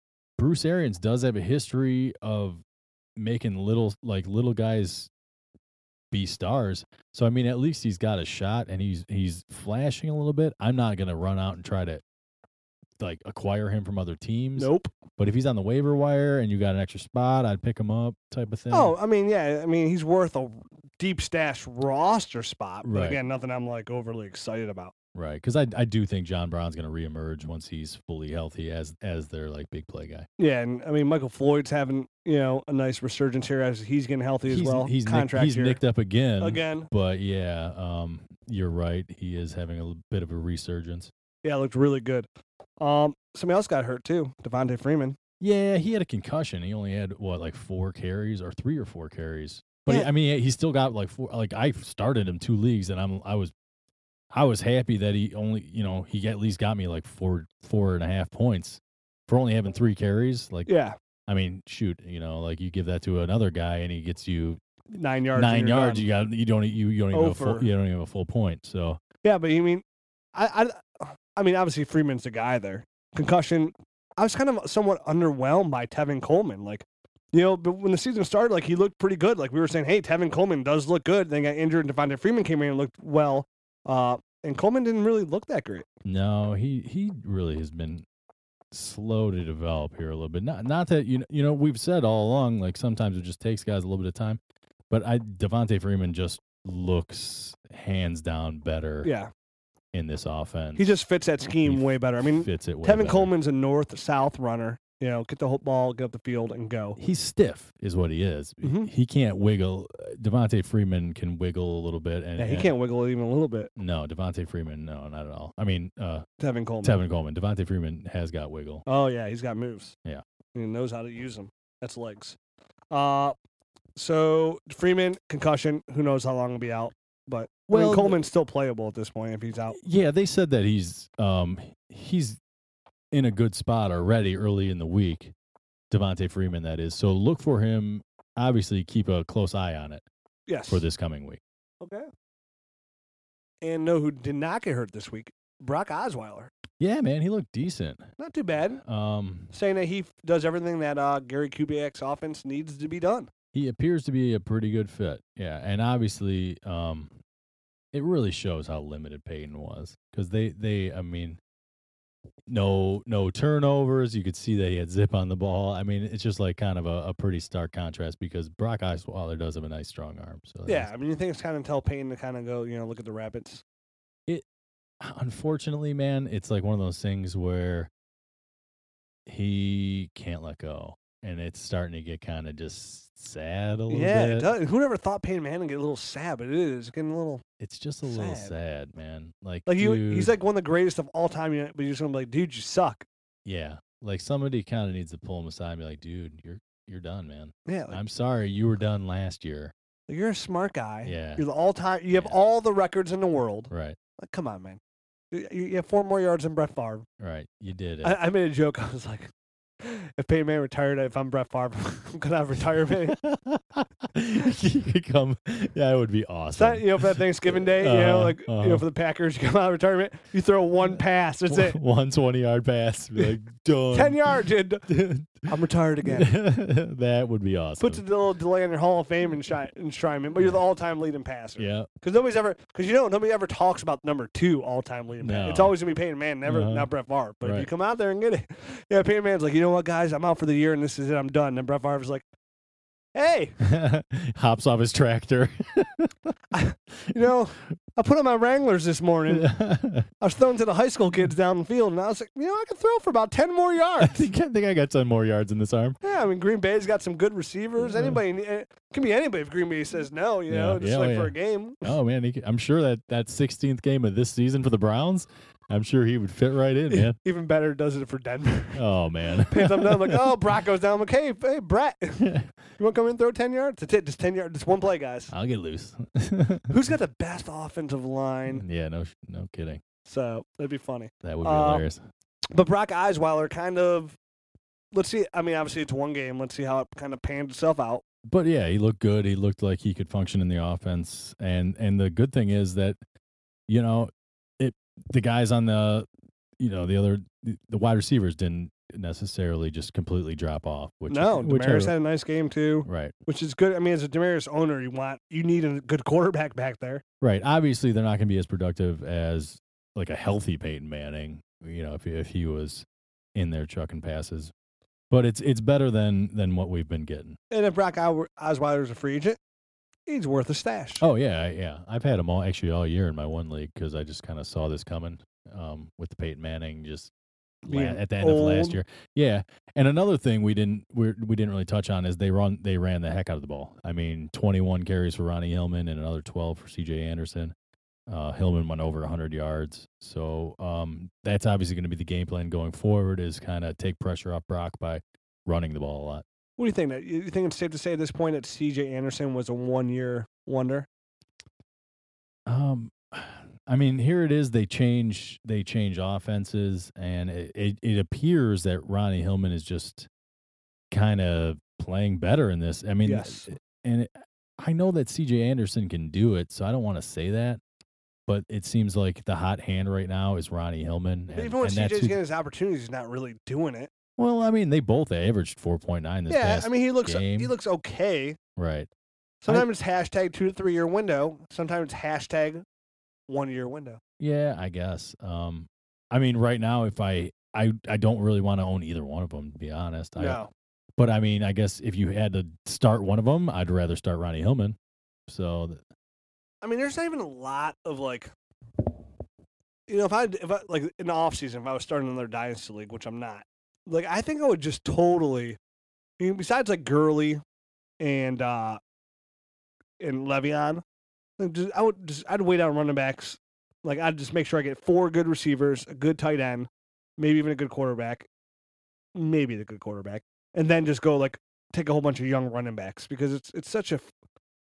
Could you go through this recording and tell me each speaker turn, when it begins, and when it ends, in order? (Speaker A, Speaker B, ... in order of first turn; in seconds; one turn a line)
Speaker A: 0.4-2.6
Speaker A: 3.1-5.1
Speaker A: 6.1-12.0
Speaker A: 13.0-18.9
Speaker B: 14.6-14.9
Speaker B: 18.7-24.9
Speaker A: 22.8-23.2
Speaker A: 25.1-30.3
Speaker B: 30.4-35.8
Speaker A: 34.5-41.1
Speaker B: 36.4-36.9
Speaker B: 41.4-42.3
Speaker B: 42.8-45.2
Speaker A: 45.4-53.5
Speaker A: 54.3-60.7
Speaker B: 60.6-61.0
Speaker A: 61.3-64.6
Speaker B: 64.9-66.0
Speaker A: 65.3-69.0
Speaker B: 67.1-67.7
Speaker B: 69.2-85.8
Speaker A: 86.0-88.0
Speaker A: 88.7-94.4
Speaker A: 94.9-99.1
Speaker B: 99.0-99.3
Speaker A: 99.9-101.0
Speaker B: 100.8-107.0
Speaker A: 101.6-103.3
Speaker A: 107.0-112.7
Speaker B: 108.6-108.9
Speaker B: 112.4-113.7
Speaker A: 113.8-116.2
Speaker B: 116.4-117.0
Speaker A: 116.8-118.8
Speaker B: 118.8-120.0
Speaker B: 120.5-122.4
Speaker B: 122.9-123.3
Speaker B: 124.0-129.8
Speaker A: 127.7-128.2
Speaker A: 129.7-132.4
Speaker A: 133.1-135.3
Speaker A: 135.9-140.0
Speaker B: 140.5-140.8
Speaker A: 140.7-141.4
Speaker B: 141.8-142.1
Speaker B: 143.6-146.5
Speaker A: 146.8-148.1
Speaker B: 148.2-148.8
Speaker A: 148.8-149.5
Speaker B: 149.5-153.3
Speaker A: 153.5-157.2
Speaker A: 157.9-161.4
Speaker A: 162.5-170.9
Speaker B: 170.7-173.6
Speaker A: 175.0-177.9
Speaker A: 179.2-184.5
Speaker B: 183.9-187.4
Speaker A: 187.6-190.3
Speaker B: 188.0-188.5
Speaker B: 189.7-193.1
Speaker A: 193.4-199.7
Speaker B: 197.7-198.0
Speaker B: 200.1-204.8
Speaker A: 201.0-201.4
Speaker A: 202.1-202.4
Speaker A: 203.7-204.0
Speaker B: 205.3-207.1
Speaker A: 207.2-208.2
Speaker B: 208.0-213.2
Speaker A: 213.1-218.8
Speaker B: 216.5-221.8
Speaker A: 221.5-225.5
Speaker B: 223.9-224.9
Speaker B: 225.4-226.3
Speaker A: 226.0-228.0
Speaker B: 227.8-242.2
Speaker A: 231.6-231.9
Speaker A: 235.2-235.7
Speaker A: 236.4-236.9
Speaker A: 237.4-237.7
Speaker B: 243.1-243.6
Speaker A: 243.6-246.1
Speaker B: 246.5-249.5
Speaker A: 249.3-250.1
Speaker B: 250.2-254.3
Speaker A: 254.0-256.0
Speaker B: 256.0-261.9
Speaker A: 257.9-258.2
Speaker A: 260.5-267.2
Speaker B: 266.9-275.3
Speaker A: 268.7-270.3
Speaker A: 272.2-272.5
Speaker A: 275.3-276.7
Speaker B: 276.7-278.6
Speaker A: 278.5-279.8
Speaker B: 280.0-281.8
Speaker A: 281.2-282.0
Speaker B: 282.5-284.2
Speaker B: 284.9-288.0
Speaker A: 288.2-293.0
Speaker A: 293.7-296.1
Speaker A: 296.6-301.9
Speaker B: 301.1-307.0
Speaker A: 302.9-303.1
Speaker A: 307.2-314.5
Speaker A: 315.1-317.4
Speaker B: 317.5-319.4
Speaker B: 320.1-321.0
Speaker A: 321.0-327.1
Speaker B: 327.6-328.8
Speaker A: 327.7-337.5
Speaker A: 338.1-346.2
Speaker B: 346.6-350.9
Speaker A: 352.5-360.1
Speaker A: 360.9-367.6
Speaker B: 363.0-363.5
Speaker A: 368.3-372.2
Speaker B: 371.3-373.9
Speaker A: 374.2-377.5
Speaker B: 376.3-378.4
Speaker A: 378.6-378.9
Speaker B: 379.4-382.6
Speaker B: 383.3-384.0
Speaker A: 384.2-390.4
Speaker B: 390.2-390.5
Speaker A: 391.0-395.8
Speaker B: 396.6-398.3
Speaker B: 399.9-405.6
Speaker B: 406.2-407.4
Speaker B: 408.0-408.8
Speaker B: 410.0-410.8
Speaker B: 411.4-418.3
Speaker B: 419.1-424.1